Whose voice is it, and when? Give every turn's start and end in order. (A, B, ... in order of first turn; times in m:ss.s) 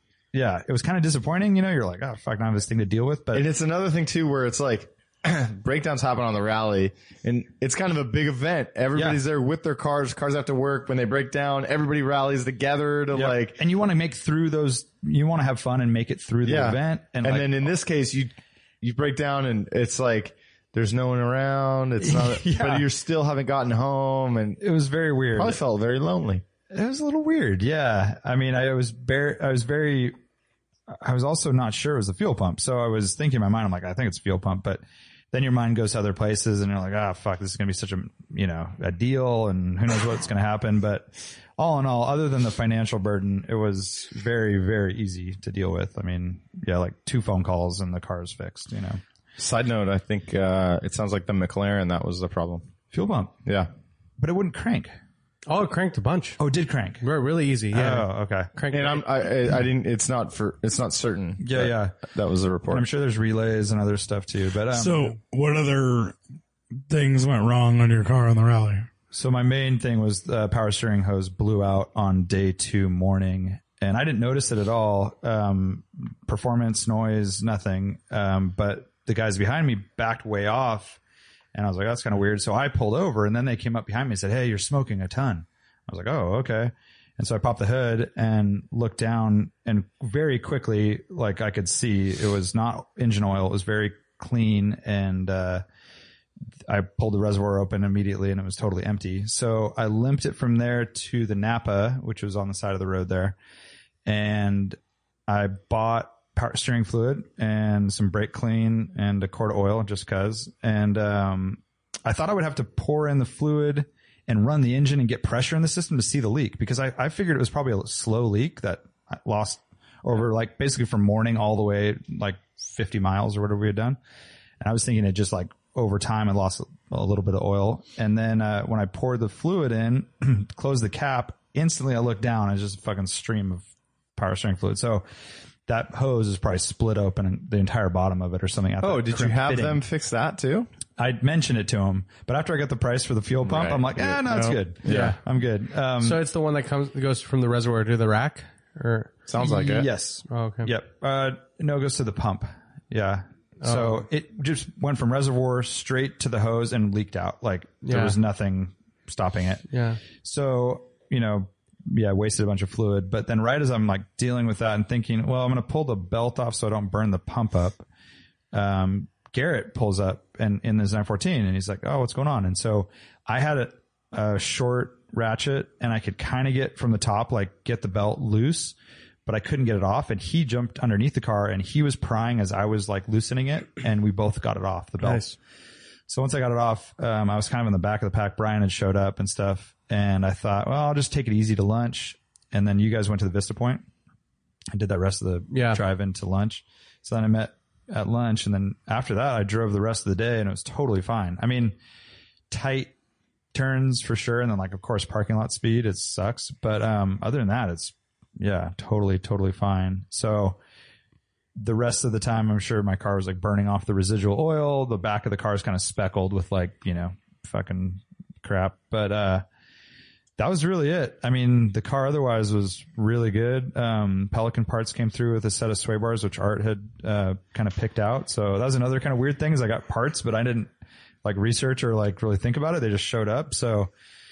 0:00.3-0:03.5 A
0:03.3-0:13.6 B
0:09.0-0:09.2 A
0:13.1-0:17.7 A
0:16.4-0:24.6 B
0:22.0-0:22.9 A
0:24.6-0:25.6 A
0:25.3-0:26.4 B
0:26.7-0:30.2 A
0:30.9-0:49.0 A
0:49.4-0:52.7 B
0:52.9-0:53.4 A
0:54.2-0:54.9 A
0:55.5-0:56.4 C
0:56.4-0:57.0 A
0:57.0-0:59.0 C
0:57.7-0:58.5 A
0:58.7-1:02.9 B
1:01.4-1:02.0 A
1:02.7-1:05.2 A
1:04.7-1:06.2 D
1:06.9-1:08.9 D
1:09.1-1:21.0 A
1:21.5-1:35.6 A
1:36.7-1:43.4 A
1:44.1-2:04.0 A
2:04.6-2:13.6 A
2:14.2-2:15.0 A
2:15.7-2:19.8 A
2:18.8-2:20.7 B
2:21.0-2:26.2 A
2:23.4-2:25.2 B
2:24.8-2:25.2 C
2:26.0-2:29.2 C
2:29.3-2:29.9 B
2:29.4-2:47.8 A
2:30.3-2:30.7 C
2:33.6-2:34.0 C
2:37.8-2:38.2 C
2:39.7-2:40.0 C
2:48.5-2:58.8 A
2:59.3-3:05.3 A
3:05.0-3:05.4 C
3:06.1-3:13.9 A
3:14.7-3:21.8 A
3:15.5-3:15.8 C
3:22.5-3:22.9 A
3:23.5-3:30.6 A
3:31.6-3:39.4 A
3:40.4-3:50.7 A
3:51.2-3:53.9 A